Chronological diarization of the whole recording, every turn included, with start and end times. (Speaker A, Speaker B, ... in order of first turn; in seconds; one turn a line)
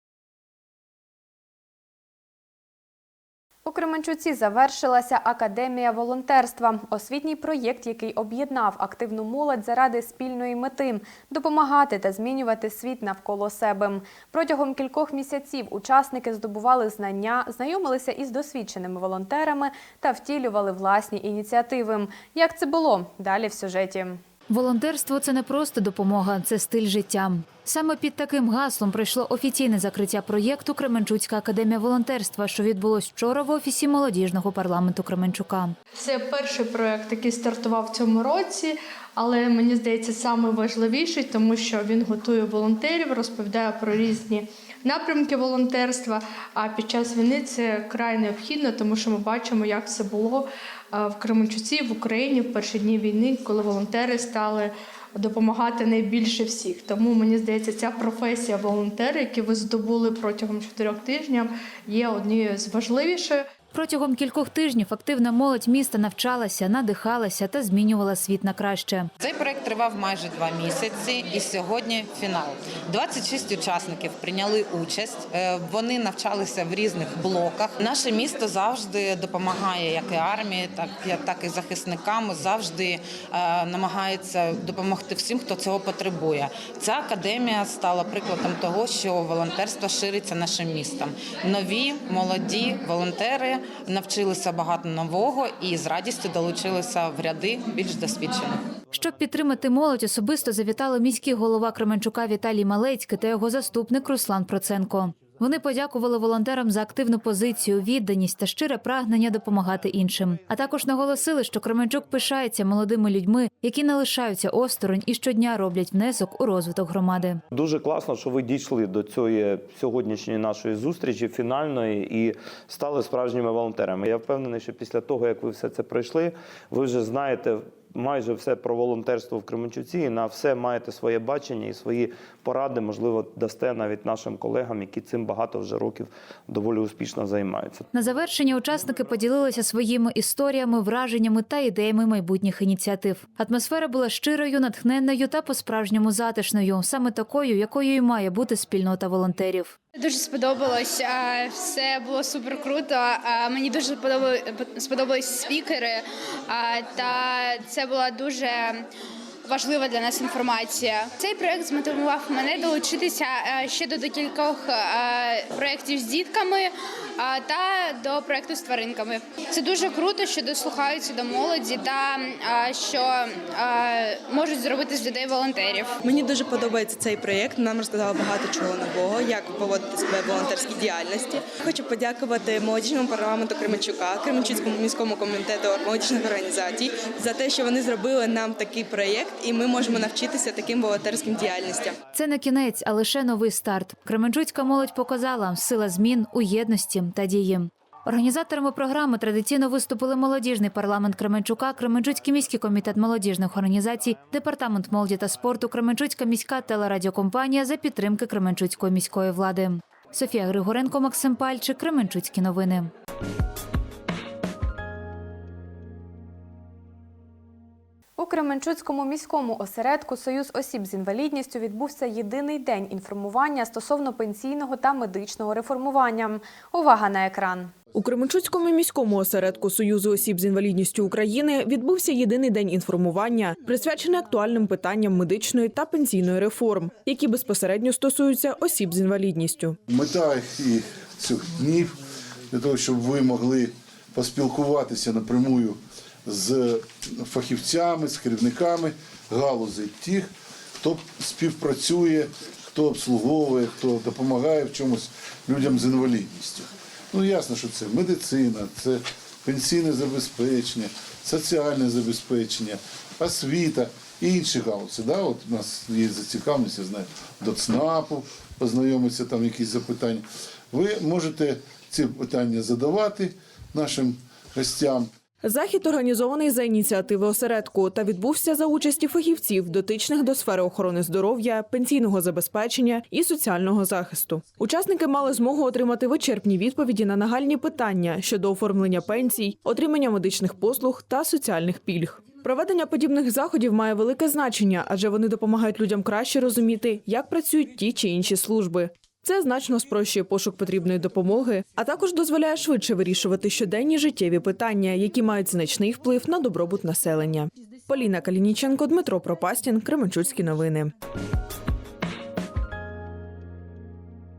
Speaker A: 3.6-24.2
Speaker B: 24.5-35.7
Speaker C: 36.1-63.4
Speaker B: 63.7-69.1
Speaker D: 69.2-98.6
Speaker B: 99.0-117.4
Speaker E: 117.5-137.8
Speaker B: 137.9-149.7
Speaker F: 149.9-158.9
Speaker F: 159.4-175.9
Speaker G: 176.6-191.9
Speaker B: 192.1-212.9
Speaker A: 218.2-227.7
Speaker H: 227.9-239.8
Speaker I: 239.9-275.1
Speaker H: 275.4-310.9